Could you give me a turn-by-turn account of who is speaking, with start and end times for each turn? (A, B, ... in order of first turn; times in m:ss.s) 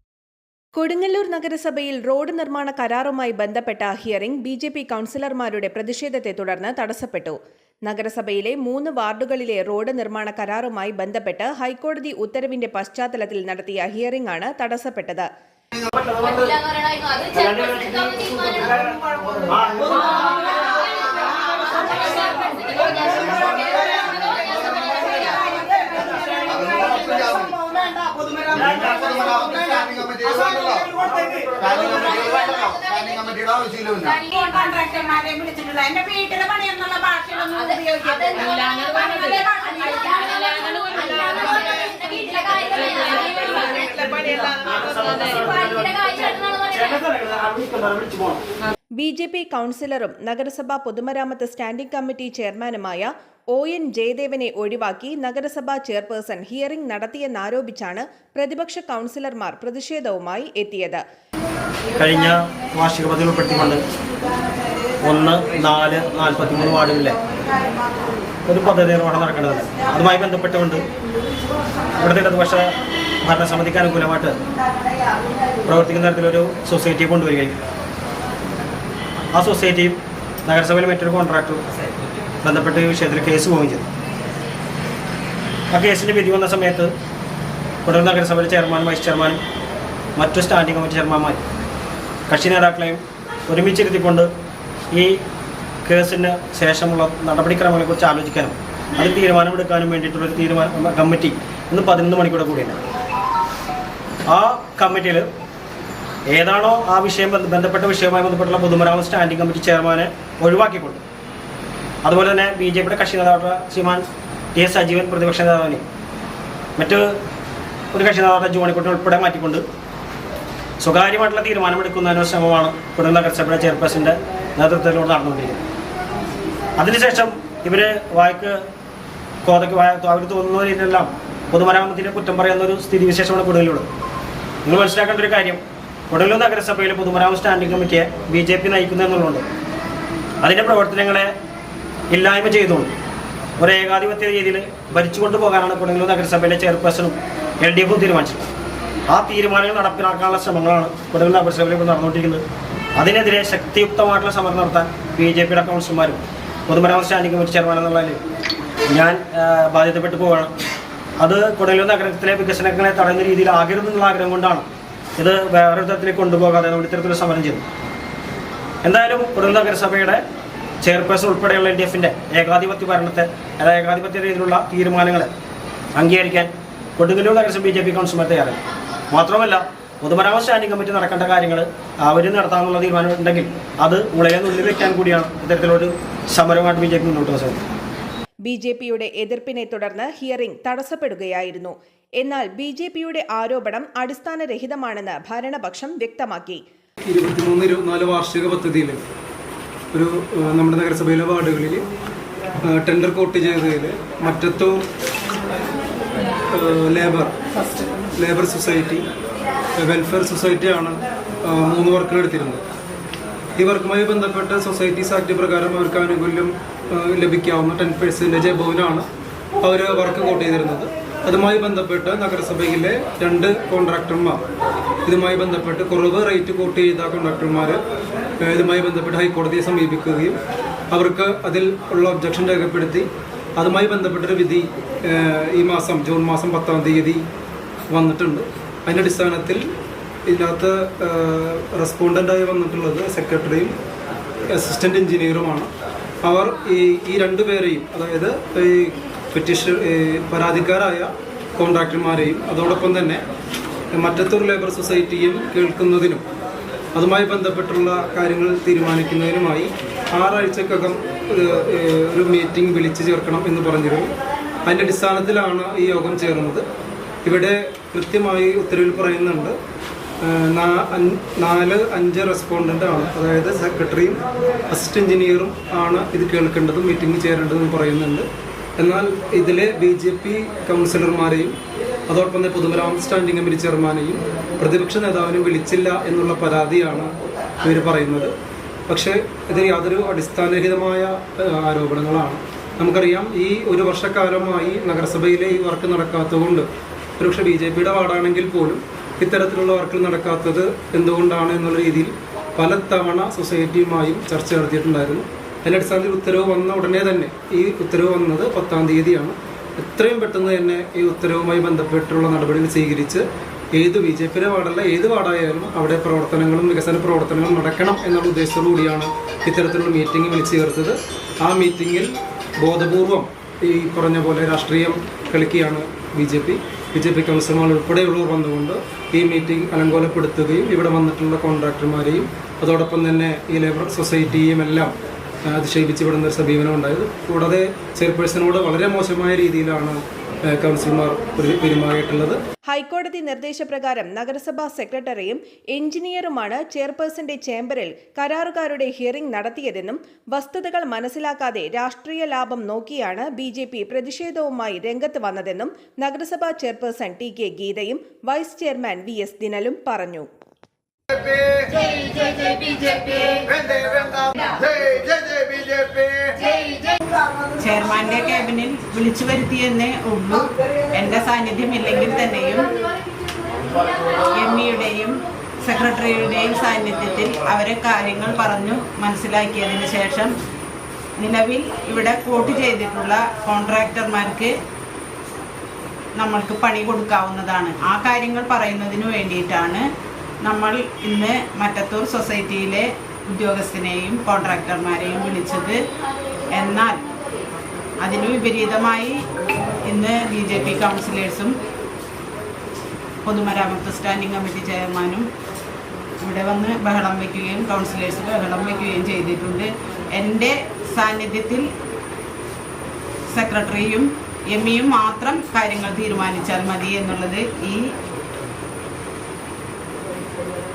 0:00.8-0:15.3 A
0:15.8-0:20.5 B
0:26.5-0:27.1 C
0:31.8-0:32.1 D
0:32.0-0:32.6 C
0:34.1-0:43.0 C
0:34.1-0:42.1 D
0:42.8-0:43.2 D
0:43.4-0:48.4 B
0:49.0-1:01.0 A
1:02.0-1:03.8 B
1:05.0-1:07.2 B
1:08.4-1:10.9 B
1:12.0-1:14.4 B
1:15.6-1:17.6 B
1:19.3-1:21.6 B
1:22.4-1:23.9 B
1:25.7-1:26.9 B
1:27.8-1:29.4 B
1:30.2-1:31.4 B
1:32.3-1:34.3 B
1:34.9-1:35.2 B
1:35.9-1:42.8 B
1:44.3-1:45.3 B
1:46.3-1:51.0 B
1:52.0-1:55.8 B
1:56.8-1:57.1 B
1:57.9-1:59.6 B
2:00.8-2:05.6 B
2:06.8-2:08.6 B
2:09.4-2:13.9 B
2:14.6-2:19.4 B
2:20.4-2:21.3 B
2:22.1-2:22.9 B
2:23.6-2:28.5 B
2:29.1-2:32.4 B
2:33.0-2:38.2 B
2:38.9-2:40.5 B
2:41.2-2:44.7 B
2:45.2-2:47.6 B
2:48.8-2:50.2 B
2:50.8-2:55.3 B
2:56.0-2:58.6 B
2:59.1-3:07.6 B
3:08.5-3:16.6 A
3:17.1-3:19.0 E
3:19.9-3:21.9 E
3:22.7-3:24.8 E
3:26.5-3:27.3 E
3:28.2-3:29.0 E
3:29.8-3:32.6 E
3:33.6-3:39.1 E
3:39.6-3:44.4 E
3:45.1-3:47.8 E
3:48.4-3:50.4 E
3:50.9-3:57.2 E
3:57.9-3:59.6 E
4:00.3-4:03.7 E
4:04.5-4:05.7 E
4:06.2-4:13.2 E
4:13.9-4:16.2 E
4:16.9-4:24.1 E
4:24.7-4:26.6 E
4:27.2-4:29.6 E
4:30.2-4:38.3 E
4:38.8-4:41.6 E
4:42.1-4:48.3 E
4:48.9-5:13.2 E
5:13.8-5:34.9 E
5:35.5-5:42.4 E
5:42.7-6:00.3 A
6:07.7-6:10.4 D
6:07.7-6:08.8 C
6:11.0-6:12.6 D
6:11.1-6:12.4 C
6:14.4-6:15.1 C
6:14.4-6:15.1 D
6:15.7-6:20.3 D
6:15.8-6:18.5 C
6:19.2-6:20.0 C
6:21.2-6:24.5 D
6:22.0-6:24.2 C
6:26.2-6:29.8 D
6:26.2-6:26.9 C
6:28.0-6:29.3 C
6:30.5-6:32.8 D
6:30.5-6:31.2 C
6:33.4-6:35.8 D
6:34.8-6:35.7 C
6:36.6-6:36.9 D
6:38.0-6:39.1 D
6:38.3-6:39.0 C
6:39.9-6:41.5 D
6:39.9-6:41.1 C
6:43.3-6:45.2 D
6:43.4-6:43.8 C
6:46.2-6:51.6 D
6:46.4-6:46.8 C
6:53.4-6:57.8 D
6:53.5-6:53.8 C